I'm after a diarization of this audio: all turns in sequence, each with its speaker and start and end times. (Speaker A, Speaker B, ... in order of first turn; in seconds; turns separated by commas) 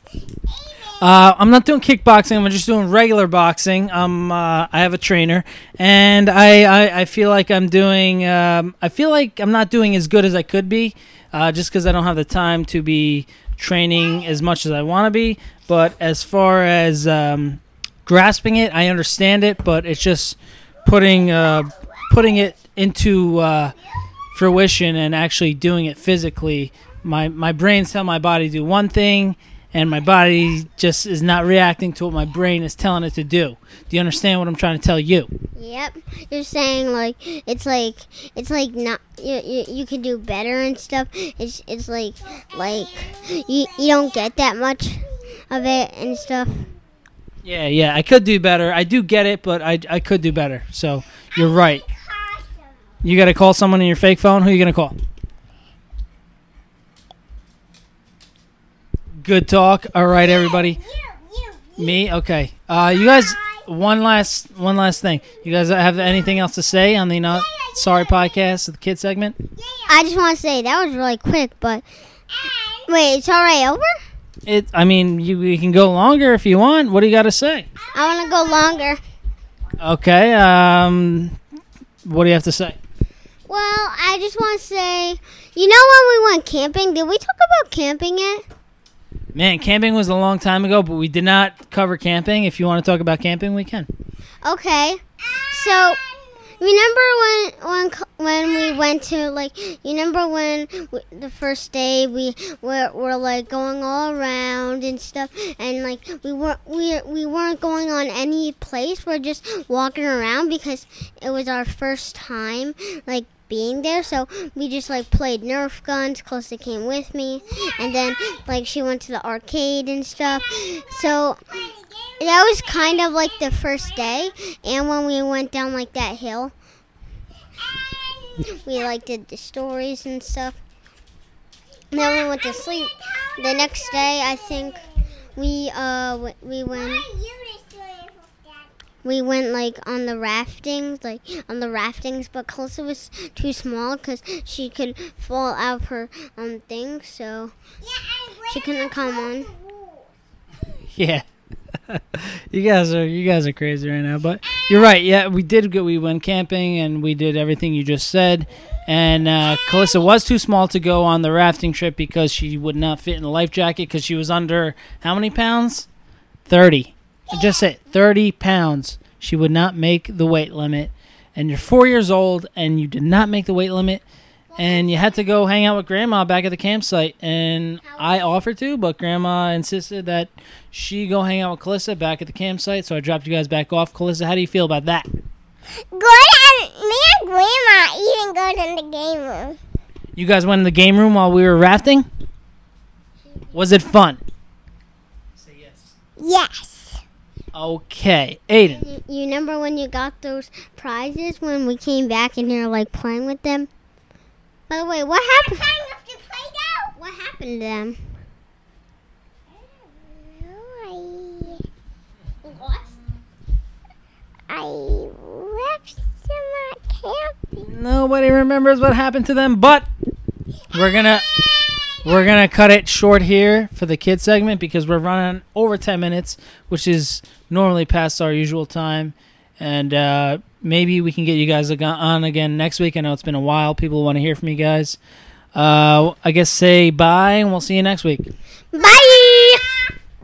Speaker A: 0.5-1.0, Speaker B: 1.0-23.7, Speaker B: 24.3-35.3, Speaker C: 35.5-46.6, Speaker A: 42.8-44.1, Speaker B: 47.4-51.8, Speaker A: 51.3-52.7, Speaker B: 53.0-55.0, Speaker B: 59.2-60.8, Speaker A: 60.2-62.0, Speaker B: 61.8-69.4, Speaker A: 63.0-63.6, Speaker A: 67.3-68.3, Speaker A: 69.5-69.9, Speaker C: 69.9-71.8, Speaker A: 72.3-72.9, Speaker C: 72.9-74.0, Speaker B: 74.5-77.7, Speaker A: 77.8-78.8, Speaker C: 77.9-79.0, Speaker B: 79.8-81.4, Speaker B: 82.0-82.8, Speaker C: 83.5-88.4, Speaker B: 89.3-93.9, Speaker C: 94.4-96.0, Speaker A: 95.6-96.2, Speaker C: 96.6-121.6, Speaker A: 121.6-123.1, Speaker C: 122.2-126.5, Speaker A: 127.7-128.6, Speaker C: 128.4-130.6, Speaker C: 131.9-134.8, Speaker A: 131.9-134.9, Speaker C: 135.3-137.1, Speaker A: 136.7-138.7, Speaker C: 139.0-147.5, Speaker A: 147.8-150.1, Speaker C: 148.5-149.5, Speaker B: 150.9-151.2, Speaker B: 151.9-165.9, Speaker B: 166.5-174.0, Speaker B: 174.6-185.1, Speaker A: 174.6-175.1, Speaker A: 185.9-189.6, Speaker B: 190.2-192.1, Speaker B: 193.5-194.2, Speaker B: 195.4-195.9, Speaker A: 196.2-197.0, Speaker B: 197.5-198.8, Speaker C: 198.8-203.7, Speaker C: 204.7-205.8, Speaker A: 205.5-206.9, Speaker C: 207.0-208.0, Speaker A: 209.9-211.6, Speaker A: 212.5-212.8, Speaker A: 214.5-217.7, Speaker B: 217.6-219.9, Speaker B: 220.7-221.3, Speaker B: 222.0-235.0, Speaker B: 235.5-238.3, Speaker C: 238.7-239.6, Speaker A: 238.8-239.7